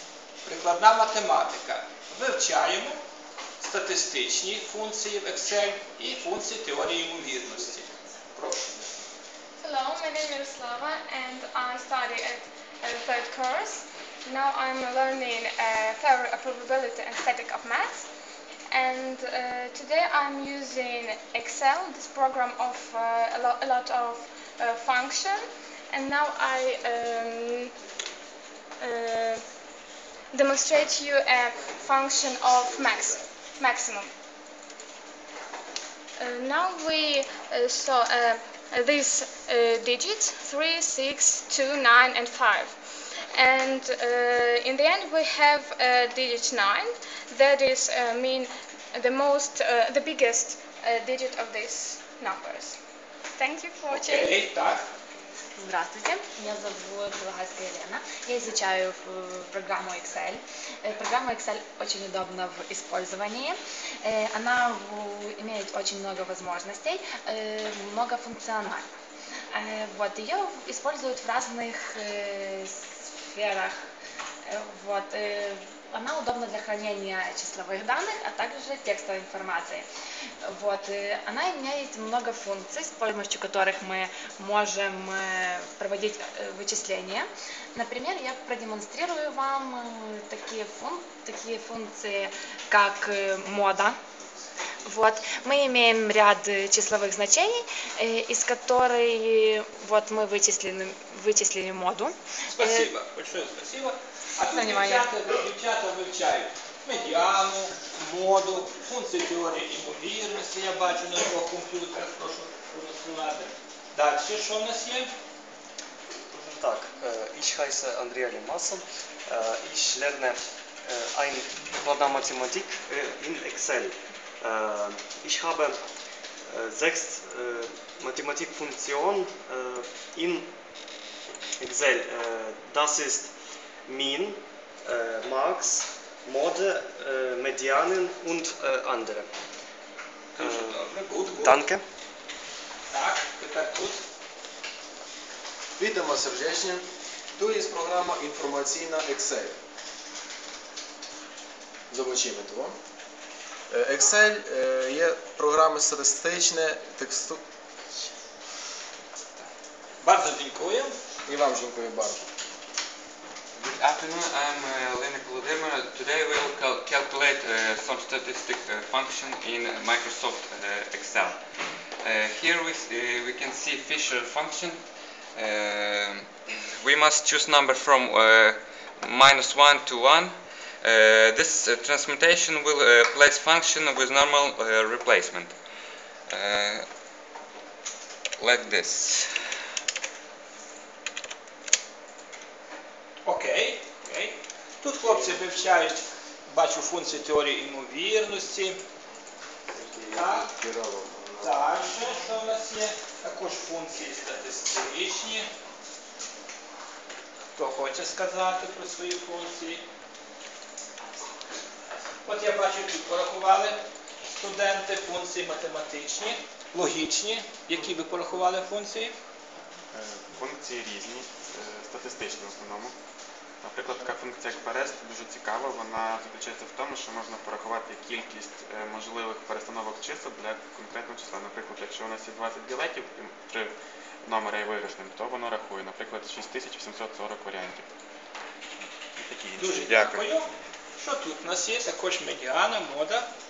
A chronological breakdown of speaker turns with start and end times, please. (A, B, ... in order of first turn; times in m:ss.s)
0:00.4-0:03.0 A
0:03.6-0:08.7 A
0:09.6-0:18.1 B
0:18.7-0:27.7 B
0:28.8-0:29.4 B
0:30.3-0:34.1 B
0:36.2-0:42.8 B
0:43.3-0:52.8 B
0:53.4-0:54.4 B
0:53.9-0:54.8 A
0:55.6-1:08.9 C
1:09.5-1:13.8 C
1:14.4-1:19.9 C
1:20.4-1:34.0 C
1:34.8-1:42.9 C
1:42.5-1:55.1 A
1:44.4-1:45.1 C
1:56.3-2:05.8 D
2:06.5-2:10.5 D
2:11.6-2:13.3 D
2:13.8-2:19.3 D
2:20.4-2:21.6 A
2:20.4-2:21.8 D
2:22.9-2:24.0 A
2:25.8-2:26.9 E
2:27.4-2:29.6 E
2:31.9-2:32.8 E
2:33.7-2:37.4 E
2:40.0-2:41.0 A
2:41.2-2:42.2 E
2:43.6-2:51.4 F
2:52.0-3:05.6 F
3:06.3-3:06.9 F
3:08.4-3:09.4 F
3:13.2-3:18.8 A
3:19.7-3:21.7 E
3:20.1-3:20.6 A
3:21.4-3:25.5 A
3:27.6-3:29.8 A
3:32.2-3:39.2 A
3:39.9-3:42.9 G
3:43.6-3:57.9 G
3:59.2-4:00.2 G
3:59.6-4:00.5 A
4:01.0-4:03.3 A